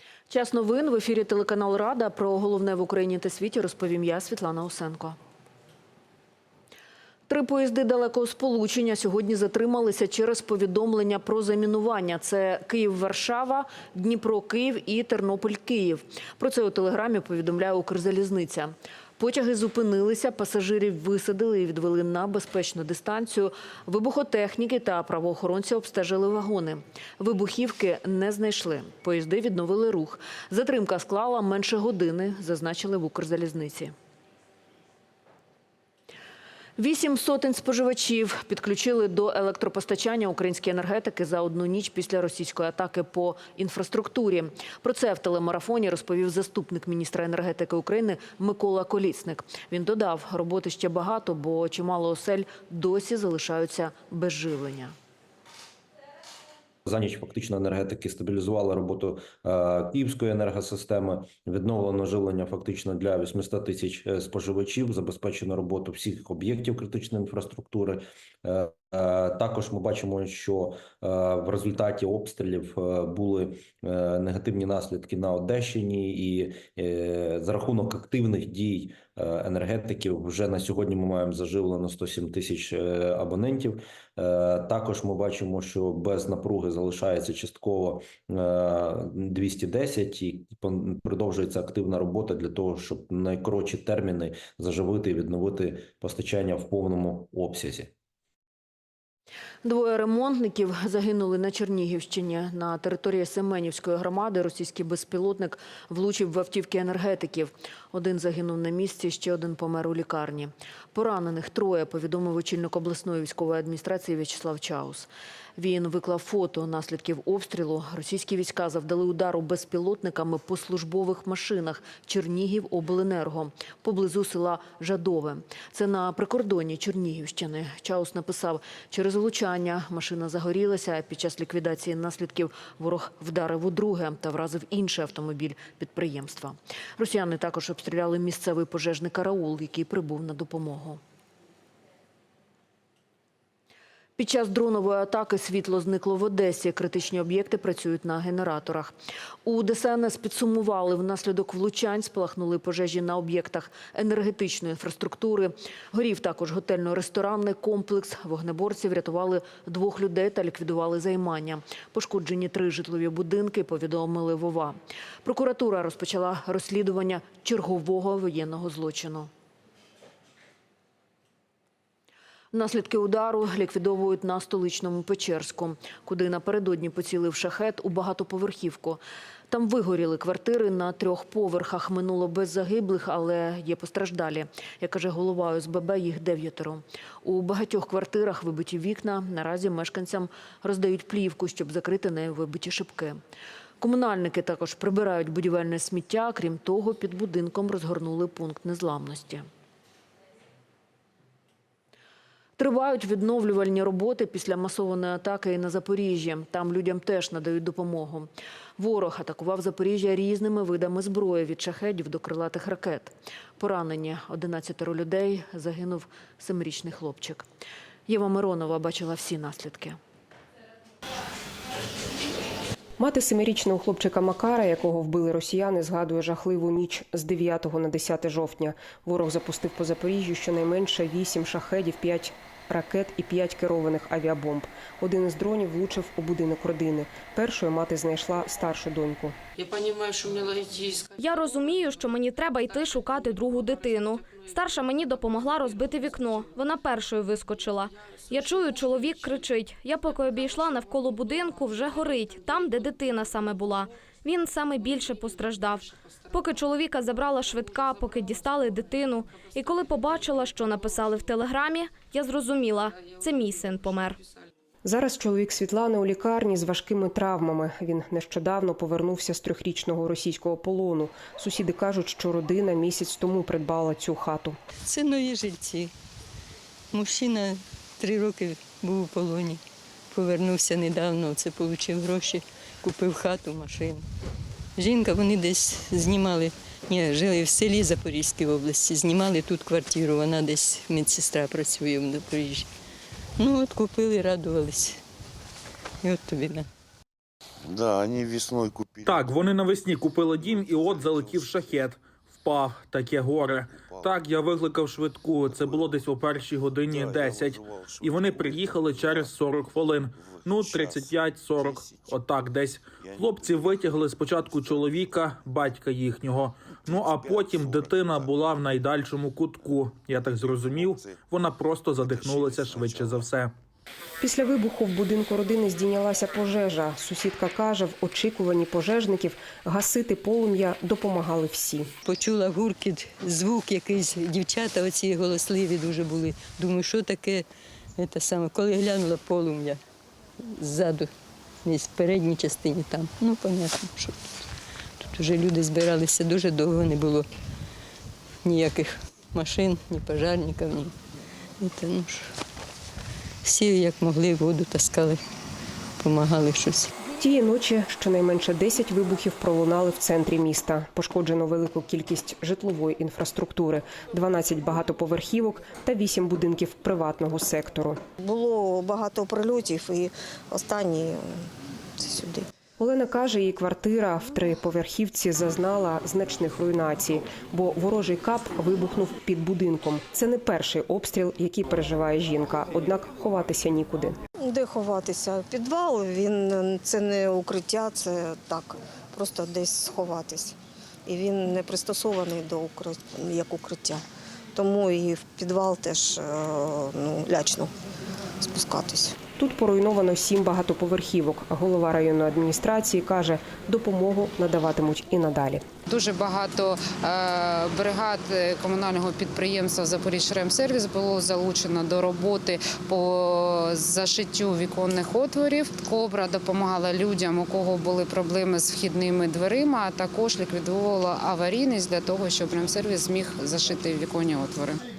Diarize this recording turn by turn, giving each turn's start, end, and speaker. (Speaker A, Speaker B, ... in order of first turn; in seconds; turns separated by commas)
Speaker A: 0.3-5.2, Speaker A: 7.3-33.9, Speaker A: 36.8-54.9, Speaker B: 56.8-97.9, Speaker A: 99.6-141.0, Speaker A: 144.2-169.3, Speaker A: 172.5-193.2, Speaker A: 193.8-199.5, Speaker A: 202.6-217.4, Speaker A: 218.1-220.0, Speaker C: 223.0-239.3, Speaker D: 241.2-264.2, Speaker C: 264.8-274.6, Speaker E: 274.8-275.9, Speaker E: 276.9-284.0, Speaker E: 284.8-292.7, Speaker E: 293.4-295.0, Speaker E: 296.0-296.7, Speaker F: 297.6-299.7, Speaker G: 299.0-323.5, Speaker F: 300.3-301.9, Speaker F: 303.8-304.2, Speaker F: 305.4-306.1, Speaker F: 306.8-309.3, Speaker F: 310.1-312.2, Speaker F: 313.0-315.3, Speaker F: 316.9-318.7, Speaker F: 320.2-321.3, Speaker F: 321.9-323.3, Speaker C: 324.2-331.9, Speaker E: 332.0-337.4, Speaker E: 338.0-339.8, Speaker E: 340.4-341.1, Speaker E: 341.6-344.5, Speaker E: 345.0-347.2, Speaker E: 348.4-350.9, Speaker E: 351.6-352.4, Speaker E: 353.4-355.2, Speaker E: 356.0-356.9, Speaker C: 357.2-368.0, Speaker H: 368.2-372.5, Speaker C: 372.8-384.2, Speaker H: 384.3-397.7, Speaker H: 398.4-399.2, Speaker C: 399.4-405.6, Speaker I: 405.9-424.8